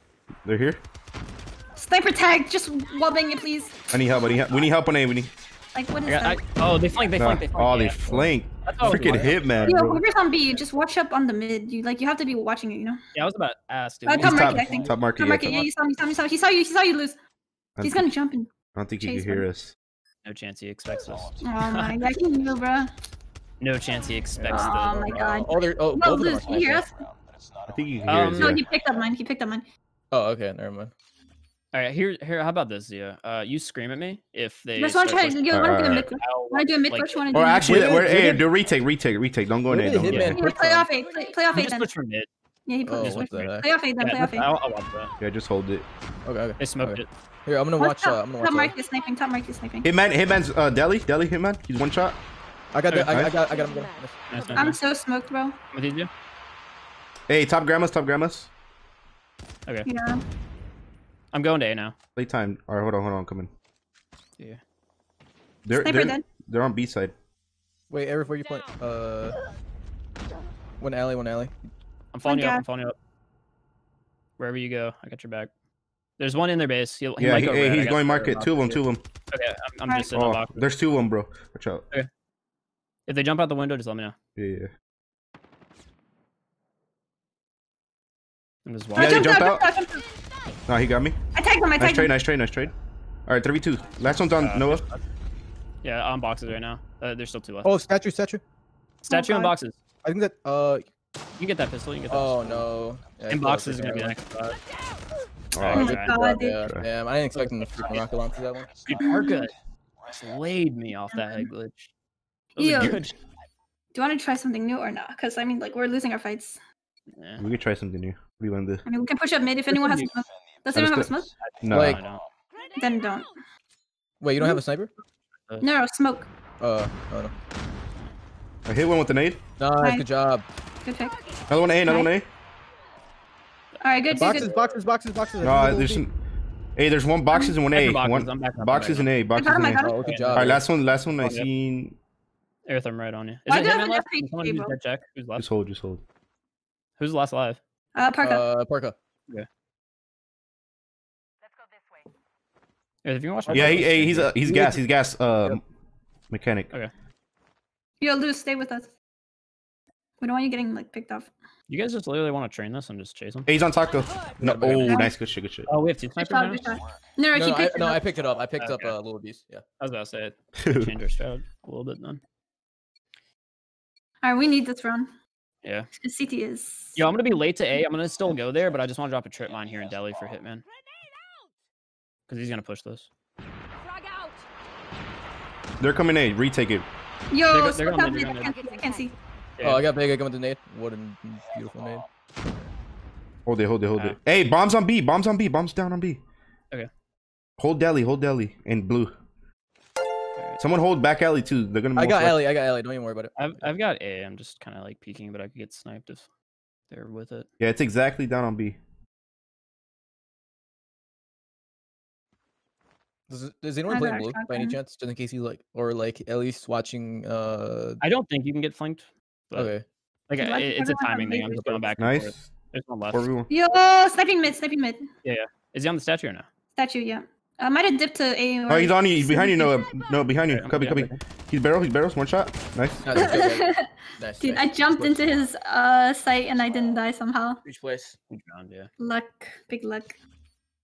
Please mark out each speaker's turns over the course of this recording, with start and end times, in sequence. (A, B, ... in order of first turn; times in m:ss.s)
0:00.4-0:00.8 A
0:01.8-0:03.8 B
0:03.9-0:05.3 A
0:05.7-0:06.4 B
0:06.0-0:08.0 C
0:07.2-0:10.0 A
0:08.1-0:09.7 D
0:08.6-0:09.4 C
0:09.6-0:13.0 B
0:13.1-0:14.8 C
0:14.0-0:17.2 B
0:14.2-0:15.6 A
0:17.8-0:18.1 A
0:17.8-0:18.5 B
0:18.7-0:19.7 A
0:19.0-0:19.5 B
0:20.2-0:21.9 C
0:21.4-0:22.9 B
0:23.6-0:25.3 C
0:24.4-0:26.8 D
0:24.5-0:27.1 B
0:27.6-0:28.6 A
0:28.0-0:28.5 C
0:28.4-0:29.6 B
0:30.1-0:30.9 D
0:31.7-0:37.4 C
0:34.8-0:38.3 B
0:35.5-0:36.1 A
0:37.3-0:40.4 A
0:37.6-0:38.4 D
0:39.7-0:40.9 D
0:40.1-0:40.4 C
0:40.2-0:41.9 B
0:41.5-0:42.3 C
0:42.7-0:44.5 B
0:42.8-0:43.6 D
0:43.0-0:45.1 C
0:45.2-0:45.8 A
0:46.2-0:48.7 D
0:46.6-0:47.1 C
0:47.8-0:49.9 B
0:49.8-0:52.2 A
0:52.7-0:54.2 D
0:52.9-0:53.3 C
0:54.3-0:54.8 C
0:54.5-0:55.6 B
0:55.7-0:56.1 C
0:57.3-0:58.5 A
0:59.8-1:00.2 B
1:01.3-1:02.0 C
1:02.2-1:03.5 A
1:05.6-1:07.1 A
1:05.7-1:06.2 B
1:07.9-1:09.4 D
1:10.8-1:11.5 D
1:12.1-1:12.9 C
1:12.2-1:12.6 B
1:14.4-1:15.5 C
1:16.2-1:18.4 C
1:17.2-1:19.0 A
1:18.2-1:18.8 D
1:19.3-1:20.6 C
1:20.1-1:21.8 A
1:23.1-1:24.1 C
1:24.4-1:24.7 A
1:28.6-1:29.4 C
1:28.9-1:29.6 A
1:29.0-1:30.0 B
1:30.7-1:31.2 A
1:31.3-1:32.1 B
1:31.8-1:32.7 A
1:33.3-1:34.8 A
1:34.4-1:35.0 C
1:35.8-1:37.7 C
1:37.6-1:38.4 D
1:39.0-1:39.8 C
1:39.1-1:39.5 B
1:40.0-1:40.8 D
1:41.4-1:42.7 C
1:42.1-1:44.2 D
1:43.3-1:44.6 C
1:45.5-1:46.0 A
1:45.6-1:46.2 C
1:45.7-1:46.7 B
1:45.7-1:48.8 D
1:47.3-1:48.0 C
1:48.8-1:49.5 C
1:49.0-1:49.4 B
1:50.1-1:51.9 C
1:51.1-1:51.5 B
1:52.6-1:53.1 C
1:52.6-1:53.0 B
1:53.9-1:56.6 B
1:57.2-1:57.4 C
1:57.4-1:58.8 A
1:58.8-2:01.3 B
1:59.7-2:00.1 C
2:00.7-2:02.0 A
2:01.7-2:02.2 C
2:01.7-2:02.0 D
2:02.7-2:03.3 B
2:04.2-2:04.9 D
2:05.6-2:06.3 B
2:06.6-2:07.3 D
2:08.7-2:09.4 A
2:09.6-2:10.4 D
2:09.8-2:10.0 B
2:10.8-2:11.2 B
2:11.5-2:12.3 A
2:13.8-2:14.5 B
2:14.1-2:14.7 C
2:14.1-2:16.0 D
2:15.4-2:16.1 A
2:16.8-2:22.0 A
2:17.3-2:17.6 B
2:17.7-2:19.1 C
2:19.3-2:20.1 B
2:19.8-2:20.6 D
2:20.0-2:20.6 C
2:21.2-2:21.5 C
2:22.7-2:25.5 C
2:23.5-2:24.7 B
2:25.4-2:26.0 A
2:27.0-2:27.6 C
2:27.9-2:28.4 B
2:28.2-2:28.9 D
2:33.0-2:34.3 C
2:33.5-2:34.8 D
2:33.5-2:35.6 A
2:36.3-2:36.7 A
2:38.0-2:38.9 B
2:40.2-2:41.3 B
2:41.7-2:43.5 C
2:43.5-2:45.7 A
2:44.4-2:45.0 D
2:44.6-2:45.0 C
2:44.8-2:45.1 B
2:45.7-2:46.7 C
2:46.2-2:48.0 B
2:47.3-2:49.6 D
2:48.6-2:49.0 C
2:49.8-2:52.2 C
2:50.6-2:50.9 A
2:54.2-2:55.1 B
2:55.6-2:55.9 C
2:56.0-2:57.0 B
2:57.0-3:00.6 C
3:02.3-3:03.1 C
3:05.8-3:06.8 A
3:07.3-3:09.2 B
3:07.5-3:08.5 C
3:09.6-3:09.8 C
3:09.6-3:12.0 D
3:13.4-3:16.2 A
3:17.6-3:19.1 A
3:20.6-3:22.4 A
3:21.9-3:23.6 D
3:23.4-3:26.2 C
3:26.9-3:27.5 C
3:27.6-3:28.8 A
3:33.3-3:38.0 D
3:33.9-3:34.8 B
3:38.0-3:39.7 C
3:39.6-3:39.8 D
3:40.3-3:43.3 C
3:40.4-3:41.8 B
3:42.0-3:42.4 A
3:43.1-3:43.5 A
3:43.5-3:45.0 B
3:45.2-3:46.4 C
3:46.7-3:49.7 B
3:48.7-3:53.3 A
3:50.5-3:51.2 C
3:53.0-3:55.3 D
3:53.1-3:57.6 B
3:57.6-3:58.1 D
3:58.3-3:58.9 C
3:59.0-4:00.2 B